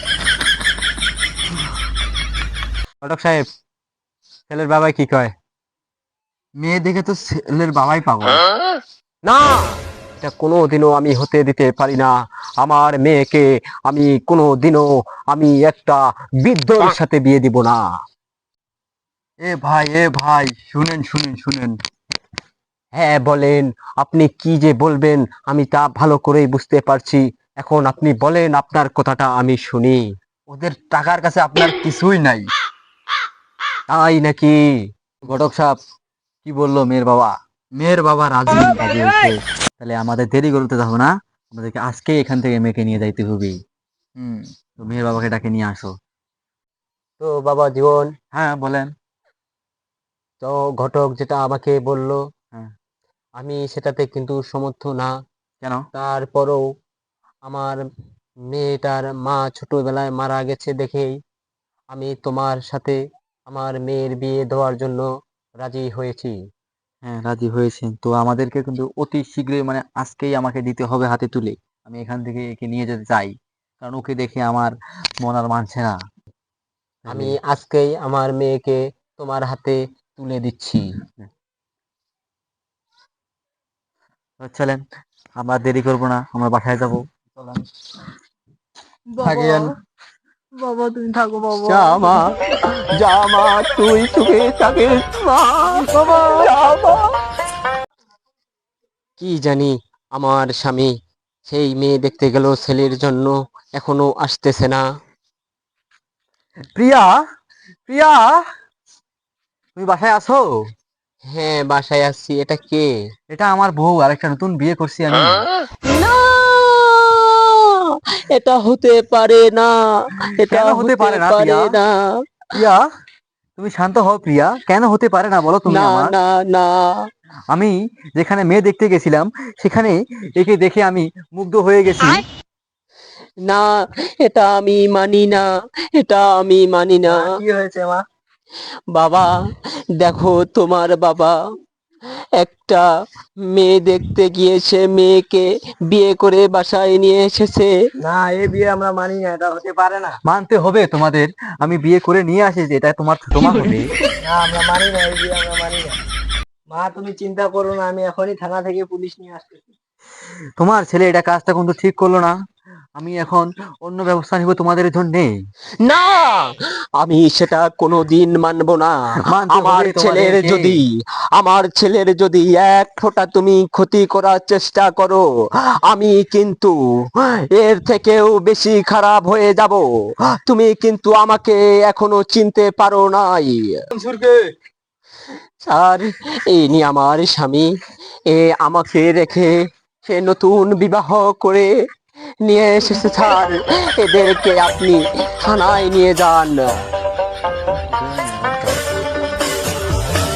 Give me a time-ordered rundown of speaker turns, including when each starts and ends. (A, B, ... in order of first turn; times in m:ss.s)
0:03.0-0:03.4 A
0:04.5-0:05.3 A
0:06.6-0:08.4 B
0:09.2-0:17.9 A
0:19.4-0:21.8 B
0:22.9-0:30.0 A
0:30.5-0:32.4 B
0:33.9-0:34.6 A
0:35.2-0:35.8 B
0:36.4-0:43.5 B
0:44.2-0:45.9 B
0:47.2-0:48.1 A
0:48.3-0:48.9 B
0:50.4-0:52.2 A
0:53.4-0:55.1 A
0:55.9-0:56.6 A
0:57.4-0:57.8 A
0:58.5-1:01.2 A
1:01.9-1:03.0 A
1:03.5-1:05.1 A
1:05.6-1:06.3 A
1:07.0-1:15.9 B
1:17.1-1:17.4 B
1:17.1-1:20.9 A
1:24.4-1:24.8 B
1:25.4-1:27.6 B
1:29.2-1:29.6 C
1:29.2-1:29.7 B
1:30.7-1:31.5 B
1:31.6-1:32.4 A
1:32.9-1:37.1 A
1:39.2-1:40.9 A
1:41.4-1:44.8 A
1:46.7-1:47.2 B
1:47.9-1:48.4 B
1:49.8-1:50.5 B
1:51.3-1:52.9 A
1:53.3-1:55.4 B
1:55.8-1:57.8 A
1:58.3-2:01.9 A
2:00.4-2:01.6 B
2:02.5-2:02.8 B
2:03.6-2:06.2 B
2:05.7-2:07.0 A
2:07.5-2:12.2 B
2:13.4-2:17.2 A
2:17.1-2:18.0 C
2:18.9-2:19.4 A
2:20.0-2:21.4 A
2:22.4-2:22.9 A
2:23.5-2:27.7 A
2:28.0-2:30.1 C
2:30.2-2:33.9 B
2:34.2-2:36.0 C
2:36.7-2:39.7 C
2:40.6-2:42.3 B
2:43.0-2:45.3 B
2:45.8-2:48.9 A
2:49.2-2:50.8 B
2:49.5-2:55.2 A
2:55.8-3:03.8 A
3:03.9-3:04.5 B
3:05.6-3:07.7 A
3:08.3-3:11.7 A
3:12.4-3:16.7 A
3:17.9-3:19.2 B